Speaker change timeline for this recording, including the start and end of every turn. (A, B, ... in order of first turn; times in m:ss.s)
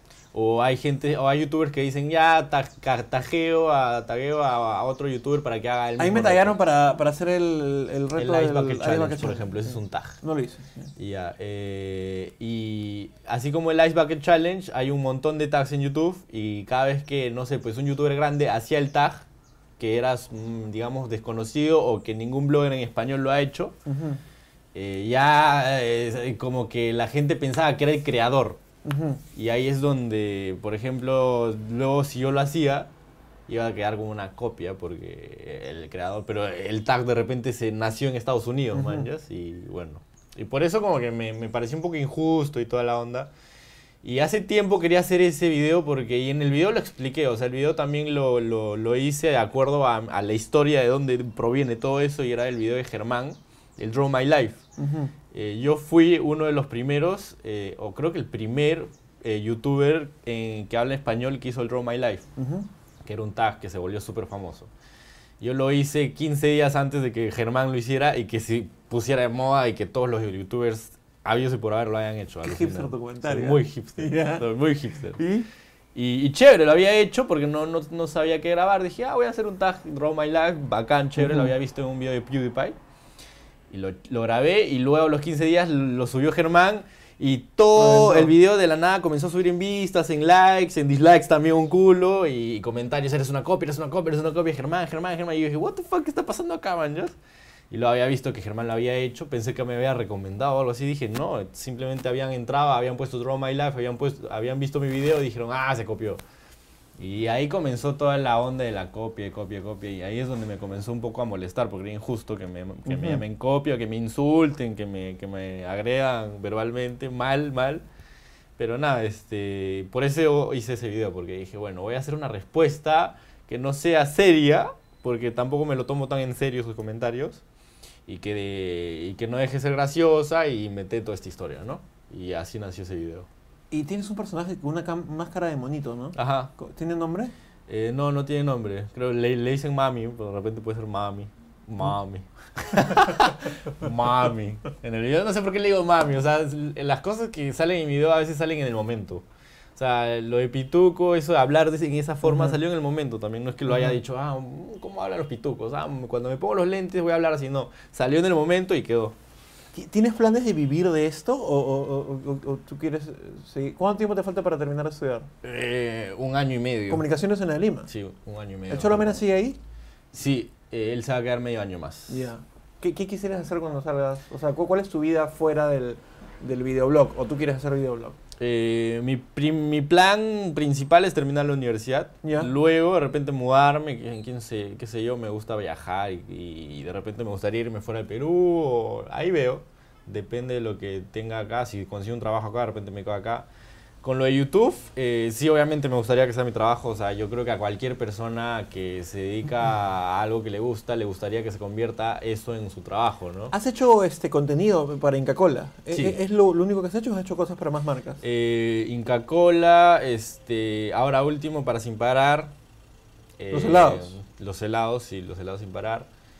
0:00.3-0:06.6 A
0:06.0-0:10.9 B
0:08.2-0:10.2 A
0:11.0-0:19.2 A
0:19.8-0:23.8 A
0:23.8-0:24.2 B
0:24.7-0:28.6 A
0:28.8-0:29.2 B
0:29.3-0:32.9 A
0:33.5-0:43.3 A
0:38.7-0:39.1 B
0:44.0-0:54.6 A
0:54.8-0:55.1 B
0:55.3-1:02.3 A
1:02.4-1:02.7 B
1:03.0-1:04.7 A
1:05.4-1:15.2 A
1:12.4-1:14.5 B
1:15.2-1:15.5 B
1:15.9-1:22.8 A
1:21.2-1:21.5 B
1:23.7-1:37.1 A
1:27.7-1:28.3 B
1:37.7-1:46.2 A
1:47.0-1:57.8 A
1:52.9-1:53.2 B
1:58.6-2:07.4 A
2:08.0-2:13.3 A
2:13.7-2:17.3 B
2:16.1-2:16.5 A
2:17.7-2:29.2 A
2:29.8-2:39.2 A
2:32.2-2:32.6 B
2:33.7-2:33.9 B
2:39.7-2:45.3 B
2:45.4-2:47.0 A
2:46.9-2:47.9 B
2:47.9-2:49.2 A
2:48.7-2:49.6 B
2:50.1-2:52.2 A
2:52.1-2:58.2 B
2:58.4-3:13.5 A
3:02.2-3:02.5 B
3:14.0-3:23.5 A
3:23.5-3:28.2 B
3:25.9-3:26.2 A
3:28.2-3:32.5 A
3:33.4-3:36.1 A
3:33.5-3:34.1 B